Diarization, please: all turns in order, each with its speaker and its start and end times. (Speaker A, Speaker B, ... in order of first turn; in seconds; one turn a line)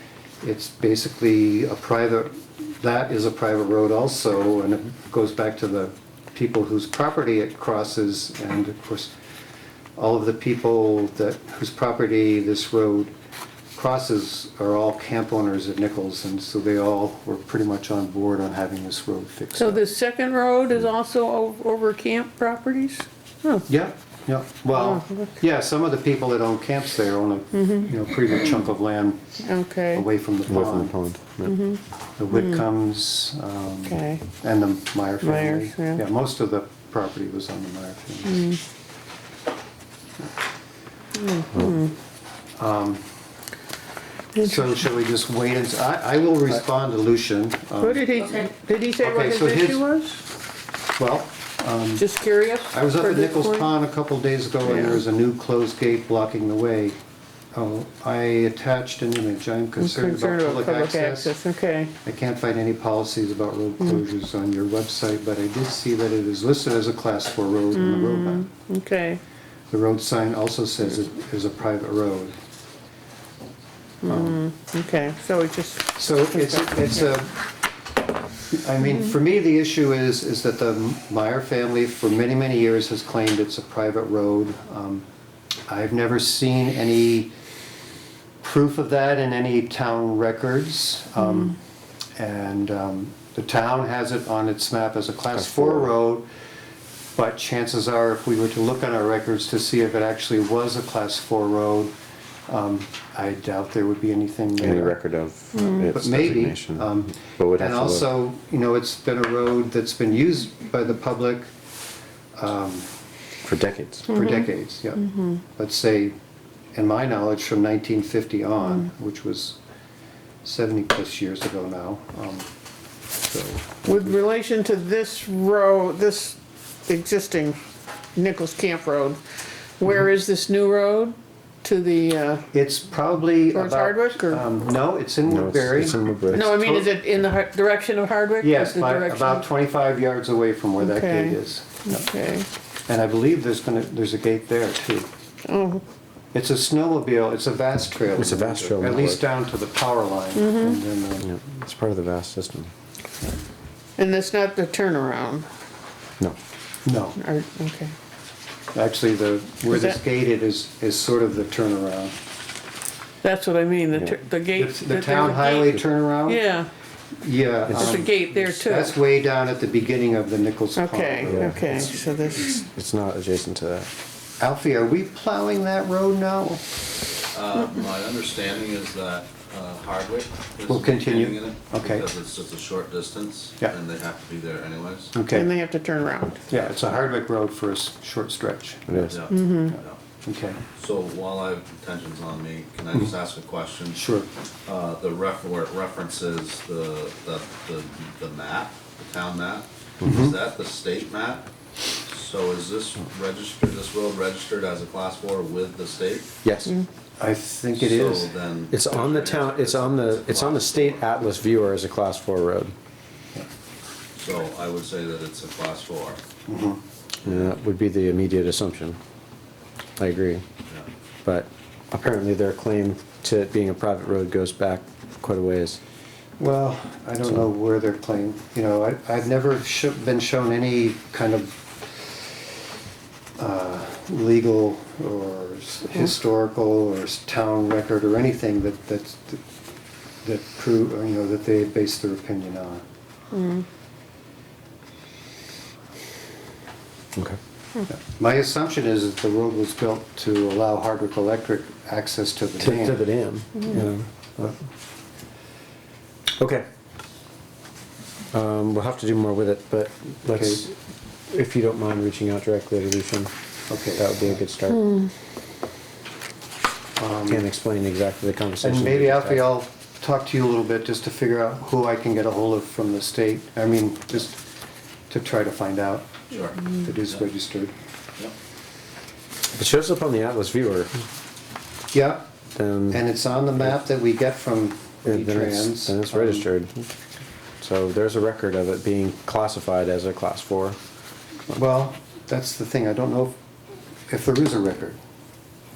Speaker A: 0.4-9.1
Speaker A: 10.0-13.1
Speaker A: 13.7-19.8
Speaker B: 19.6-23.6
Speaker A: 23.6-29.2
Speaker B: 24.7-25.3
Speaker B: 27.5-27.9
Speaker B: 29.4-30.1
Speaker A: 29.9-30.9
Speaker C: 30.5-31.6
Speaker B: 31.4-32.6
Speaker A: 32.2-38.4
Speaker B: 33.8-34.2
Speaker B: 35.2-36.0
Speaker B: 38.2-38.6
Speaker B: 41.1-41.9
Speaker A: 42.6-43.0
Speaker B: 44.3-44.8
Speaker A: 44.4-48.1
Speaker B: 47.8-50.2
Speaker A: 49.0-49.8
Speaker A: 51.0-52.1
Speaker B: 52.0-53.7
Speaker A: 52.7-57.0
Speaker B: 54.6-55.0
Speaker A: 57.5-61.3
Speaker B: 59.8-61.9
Speaker A: 62.0-68.5
Speaker B: 67.7-69.2
Speaker A: 69.7-72.3
Speaker B: 74.0-77.2
Speaker A: 74.0-74.4
Speaker A: 75.9-77.4
Speaker A: 78.5-85.0
Speaker A: 85.7-87.3
Speaker A: 88.4-91.6
Speaker A: 92.2-96.3
Speaker C: 95.3-95.9
Speaker A: 97.2-101.9
Speaker A: 102.5-105.0
Speaker C: 104.6-108.1
Speaker A: 105.8-111.5
Speaker A: 112.3-112.9
Speaker C: 113.4-114.1
Speaker A: 114.1-116.1
Speaker B: 114.1-114.5
Speaker B: 115.0-115.4
Speaker A: 116.7-119.6
Speaker A: 120.4-122.5
Speaker A: 123.2-124.2
Speaker B: 123.8-127.6
Speaker B: 128.1-129.2
Speaker B: 129.8-132.4
Speaker A: 132.5-136.9
Speaker B: 133.5-134.4
Speaker C: 135.3-136.5
Speaker B: 136.3-139.5
Speaker A: 138.4-142.1
Speaker B: 140.8-142.5
Speaker A: 142.9-145.1
Speaker B: 145.4-145.8
Speaker A: 146.3-151.3
Speaker C: 148.1-149.2
Speaker B: 150.3-150.8
Speaker C: 151.2-152.7
Speaker B: 154.0-155.5
Speaker A: 156.8-157.2
Speaker B: 157.2-157.9
Speaker A: 158.7-162.1
Speaker B: 159.7-160.0
Speaker B: 163.2-166.7
Speaker C: 163.9-164.2
Speaker A: 164.5-166.4
Speaker A: 167.2-171.8
Speaker C: 167.7-168.6
Speaker B: 167.7-169.0
Speaker B: 170.7-172.7
Speaker C: 171.2-172.0
Speaker C: 172.7-173.9
Speaker A: 174.4-176.6
Speaker D: 177.3-185.2
Speaker A: 180.7-182.1
Speaker A: 185.1-185.5
Speaker B: 185.3-186.4
Speaker A: 186.5-189.2
Speaker C: 188.9-189.2
Speaker D: 189.1-190.0
Speaker B: 189.3-189.8
Speaker A: 190.2-190.6
Speaker D: 190.8-194.0
Speaker A: 193.9-194.3
Speaker D: 194.7-201.5
Speaker A: 200.0-200.4
Speaker D: 202.0-206.3
Speaker C: 206.4-206.7
Speaker A: 207.2-208.3
Speaker D: 207.8-211.1
Speaker C: 208.7-212.7
Speaker D: 214.2-216.2
Speaker A: 216.5-216.8
Speaker D: 217.2-217.6
Speaker C: 217.2-219.0
Speaker C: 220.0-220.4
Speaker C: 221.2-225.8
Speaker A: 226.4-232.1
Speaker A: 233.4-239.4
Speaker A: 240.2-242.8
Speaker B: 243.3-243.6
Speaker A: 247.9-253.1
Speaker C: 252.6-254.6
Speaker C: 256.4-256.6
Speaker C: 258.3-260.7
Speaker A: 260.3-260.6
Speaker C: 261.3-263.3
Speaker A: 263.7-264.4
Speaker C: 263.9-264.9
Speaker A: 267.0-267.5
Speaker C: 267.3-269.6
Speaker A: 268.6-274.4
Speaker A: 275.1-277.7
Speaker D: 276.3-276.6
Speaker C: 279.6-280.9
Speaker A: 281.9-282.2
Speaker C: 282.5-283.0
Speaker A: 282.9-286.5
Speaker C: 285.0-286.9
Speaker C: 287.6-290.8
Speaker A: 291.5-293.4
Speaker A: 294.1-295.0